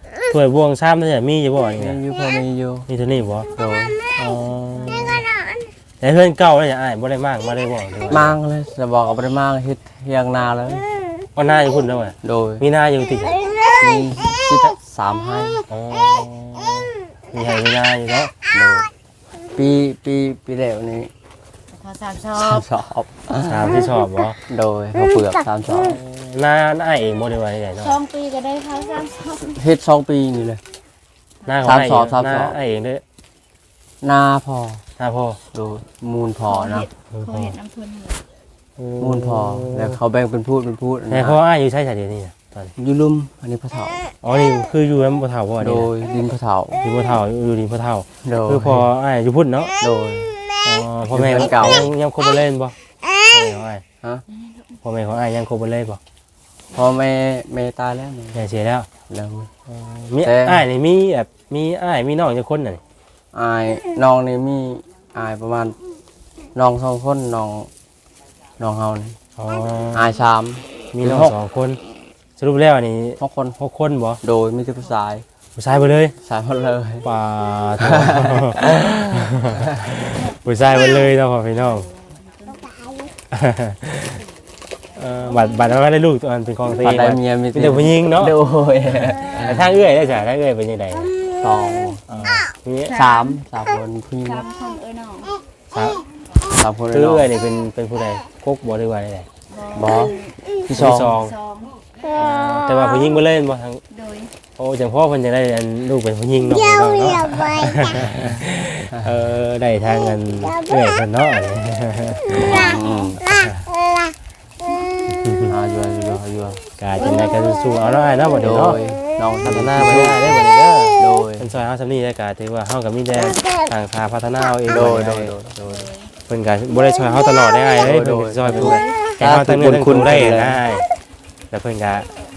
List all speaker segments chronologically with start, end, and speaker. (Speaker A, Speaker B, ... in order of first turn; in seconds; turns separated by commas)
Speaker A: 0.3-2.0, Speaker B: 1.8-2.9, Speaker A: 2.9-3.5, Speaker B: 3.6-4.0, Speaker A: 4.1-5.3, Speaker A: 6.0-8.4, Speaker B: 8.1-10.9, Speaker A: 11.3-13.4, Speaker B: 12.2-12.6, Speaker B: 13.8-15.7, Speaker A: 15.7-18.3, Speaker B: 18.5-18.9, Speaker B: 19.5-21.1, Speaker C: 21.7-22.6, Speaker B: 22.3-23.9, Speaker A: 23.4-24.4, Speaker B: 24.4-26.0, Speaker A: 25.9-28.0, Speaker C: 27.8-29.6, Speaker B: 29.4-30.6, Speaker A: 31.4-33.0, Speaker B: 31.6-32.6, Speaker B: 34.0-34.9, Speaker A: 35.0-35.4, Speaker B: 35.5-36.9, Speaker C: 36.5-38.2, Speaker A: 37.1-37.6, Speaker A: 38.8-40.0, Speaker B: 39.0-41.4, Speaker A: 41.1-42.7, Speaker B: 42.8-44.1, Speaker A: 44.2-45.9, Speaker B: 45.6-46.9, Speaker A: 46.8-49.8, Speaker B: 48.2-48.9, Speaker B: 49.8-50.4, Speaker A: 50.6-53.8, Speaker B: 51.1-51.9, Speaker A: 54.8-56.0, Speaker B: 56.7-58.4, Speaker A: 58.4-58.9, Speaker B: 59.0-59.5, Speaker A: 59.7-62.8, Speaker B: 60.2-60.7, Speaker B: 63.3-65.8, Speaker B: 66.5-67.7, Speaker B: 68.6-69.2, Speaker A: 69.4-70.1, Speaker B: 69.9-71.3, Speaker A: 70.9-71.8, Speaker A: 72.4-74.2, Speaker B: 73.2-73.6, Speaker B: 74.2-75.2, Speaker A: 75.6-76.2, Speaker B: 76.2-77.1, Speaker A: 77.0-81.9, Speaker B: 77.8-79.9, Speaker C: 81.9-82.7, Speaker A: 83.3-84.2, Speaker A: 84.9-88.4, Speaker B: 86.7-89.6, Speaker A: 89.4-91.2, Speaker B: 91.3-92.0, Speaker A: 92.1-93.0, Speaker C: 92.9-93.4, Speaker B: 92.9-94.5, Speaker C: 94.2-95.4, Speaker A: 95.7-96.0, Speaker B: 96.4-97.3, Speaker A: 96.9-99.3, Speaker C: 99.5-100.4, Speaker B: 99.7-101.2, Speaker A: 100.7-101.4, Speaker C: 101.2-101.9, Speaker A: 102.1-103.8, Speaker C: 103.9-104.3, Speaker A: 104.5-113.7, Speaker B: 112.4-113.2, Speaker A: 115.1-115.5, Speaker B: 115.5-116.7, Speaker A: 116.8-118.8, Speaker B: 118.4-120.5, Speaker A: 119.4-125.4, Speaker B: 121.0-121.5, Speaker B: 124.7-125.9, Speaker C: 125.6-126.1, Speaker A: 126.3-130.9, Speaker B: 127.8-130.7, Speaker C: 128.7-129.0, Speaker A: 131.5-132.1